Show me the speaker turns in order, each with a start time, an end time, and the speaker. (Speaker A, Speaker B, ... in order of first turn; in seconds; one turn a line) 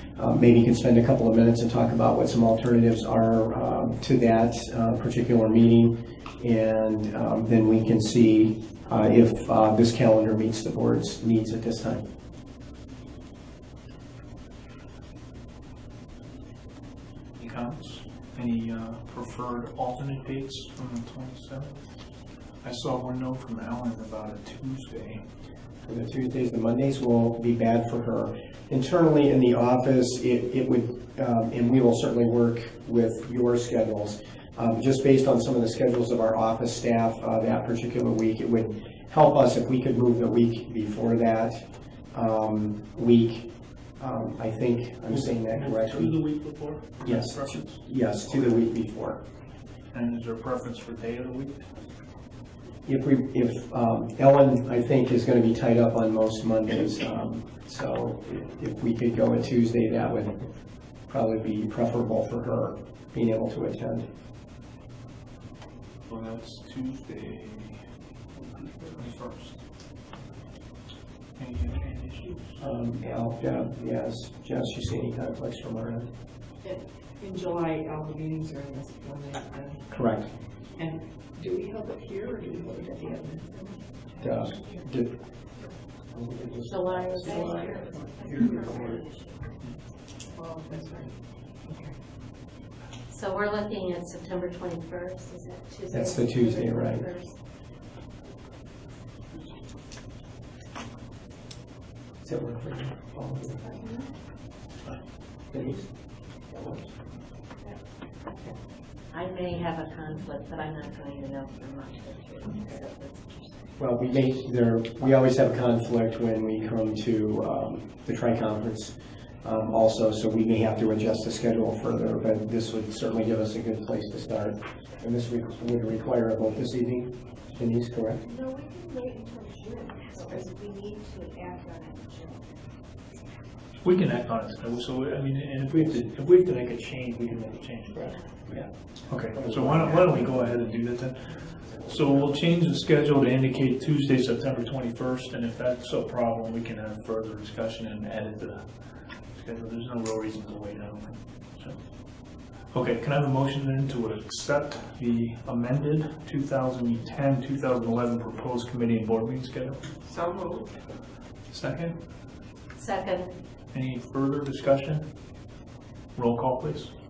Speaker A: 0.2-12.0
Speaker B: 17.4-21.7
Speaker B: 22.6-25.2
Speaker A: 25.9-41.6
Speaker A: 42.1-43.5
Speaker A: 44.0-46.1
Speaker B: 45.1-48.5
Speaker A: 47.0-49.2
Speaker B: 49.9-51.6
Speaker A: 52.9-60.4
Speaker A: 61.1-64.0
Speaker B: 66.1-67.8
Speaker B: 68.3-69.5
Speaker B: 71.3-72.5
Speaker A: 72.6-76.1
Speaker C: 76.6-79.8
Speaker A: 79.9-80.3
Speaker C: 80.8-83.8
Speaker A: 84.2-85.1
Speaker A: 86.1-87.8
Speaker D: 86.7-89.6
Speaker E: 86.7-87.4
Speaker C: 87.3-87.7
Speaker C: 88.2-88.6
Speaker A: 88.3-89.0
Speaker C: 90.3-91.1
Speaker E: 93.1-97.2
Speaker A: 95.9-97.0
Speaker D: 96.0-97.3
Speaker A: 102.2-103.7
Speaker A: 105.5-105.9
Speaker A: 106.5-106.9
Speaker E: 109.1-113.6
Speaker A: 113.8-128.2
Speaker D: 128.2-132.6
Speaker B: 133.8-151.8
Speaker A: 139.4-140.0
Speaker B: 152.7-159.8
Speaker C: 160.1-160.7
Speaker B: 161.5-162.0
Speaker E: 162.8-163.3
Speaker B: 163.7-165.1
Speaker B: 166.1-166.9